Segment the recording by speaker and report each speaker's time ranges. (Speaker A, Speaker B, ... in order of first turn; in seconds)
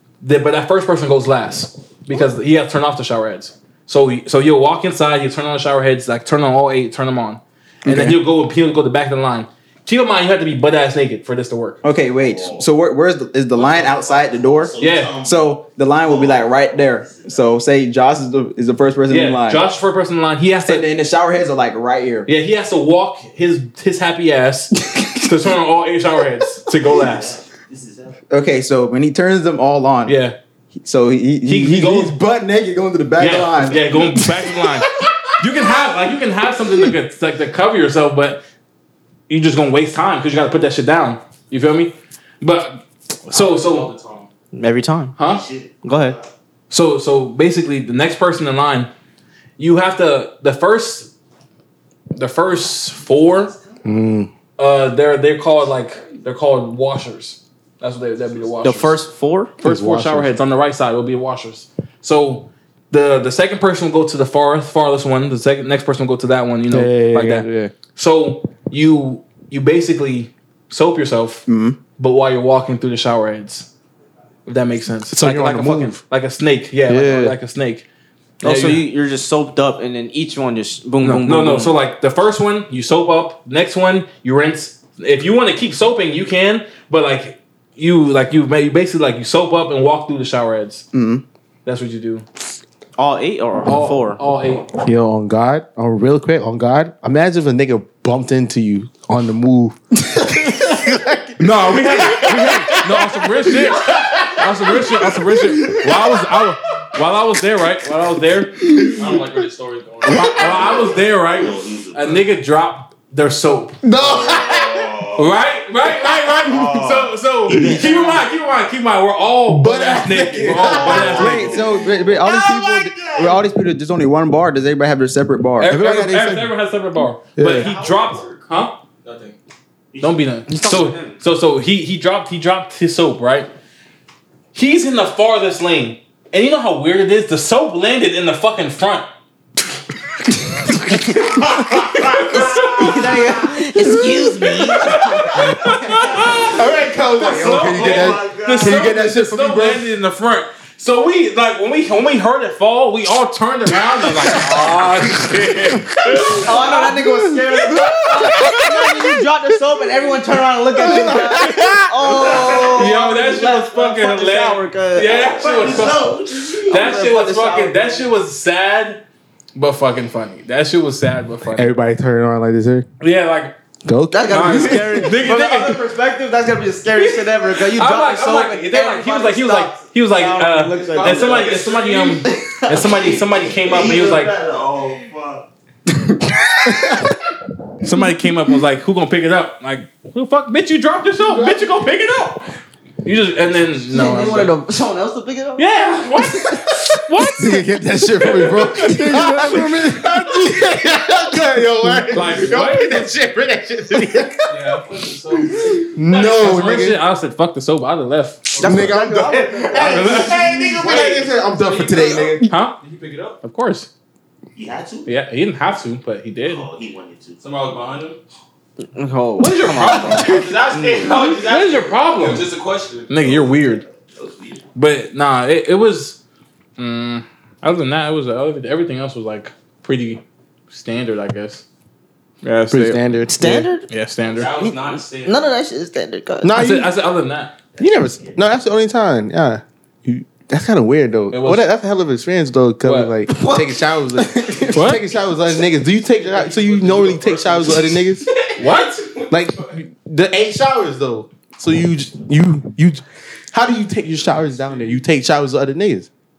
Speaker A: 0.2-11.8, 14.8-15.2, 19.1-20.9, 22.2-27.4, 30.1-30.4, 31.4-32.1, 33.2-38.4, 39.3-43.9, 45.1-45.5, 46.7-48.9, 49.6-51.1, 52.1-53.5, 54.6-59.0, 59.6-71.5, 72.0-73.7, 74.5-77.8, 78.4-78.8, 81.0-90.9, 91.6-92.2, 93.7-94.7, 101.4-108.6, 110.0-114.5, 115.0-121.7, 125.6-128.8, 130.0-133.5, 134.5-139.1, 141.7-156.9, 158.2-158.7, 162.6-169.0, 169.5-171.7, 173.0-173.6, 174.2-175.8, 176.9-184.3, 187.8-192.4, 193.0-194.5, 195.6-199.0, 202.1-203.1, 206.1-208.6, 209.9-210.4, 212.5-212.8, 213.4-213.9, 215.1-216.7, 219.4-220.5, 221.1-222.5, 223.1-223.8, 224.7-226.2, 226.8-231.6, 232.4-234.5, 236.5-237.5, 241.3-241.7, 242.8-243.1, 244.7-245.0, 248.6-249.0
Speaker B: 7.8-8.2, 11.8-19.6, 20.6-22.3, 28.3-30.2, 30.7-32.2, 32.9-33.8, 71.5-71.8, 90.9-91.2, 120.9-125.8
Speaker C: 12.0-12.7, 13.5-17.6, 26.8-28.2, 45.2-46.3, 55.7-56.2, 110.0-112.3, 113.9-118.2, 120.4-123.5, 129.9-130.2, 141.4-143.2, 145.8-148.9, 162.0-163.1, 165.0-167.0, 182.7-185.5, 209.6-210.9, 214.5-215.1, 216.4-217.4, 223.2-224.6, 237.7-238.4
Speaker D: 32.0-34.5, 53.8-54.3, 59.6-60.3, 66.7-67.7, 75.1-76.0, 76.9-77.4, 94.8-106.1, 108.7-109.0, 113.8-114.4, 119.5-121.3, 125.6-126.5, 127.3-127.7, 146.5-149.8, 156.7-157.4, 160.7-162.1, 171.4-172.9, 173.8-175.2, 191.3-191.6, 197.3-204.5, 205.6-207.0, 208.6-212.5, 232.7-233.6, 236.4-236.9, 237.8-248.3, 249.3-256.1
Speaker E: 43.3-44.3, 109.0-110.9, 127.5-128.4, 129.0-129.4, 180.7-182.3, 204.5-205.9, 208.6-208.8, 210.2-213.4, 217.4-218.2, 219.8-223.4, 234.3-235.6, 246.3-247.8, 248.6-249.6
Speaker F: 44.5-45.1, 45.8-46.1, 58.6-59.5, 78.4-81.8, 93.0-94.2, 130.5-131.1, 142.7-146.3, 156.3-165.2, 166.4-168.0, 174.1-181.6, 182.2-182.8, 193.9-195.7, 196.2-196.6, 198.7-199.8, 208.6-210.2, 218.8-221.2, 233.3-233.9, 234.4-236.6, 243.3-243.8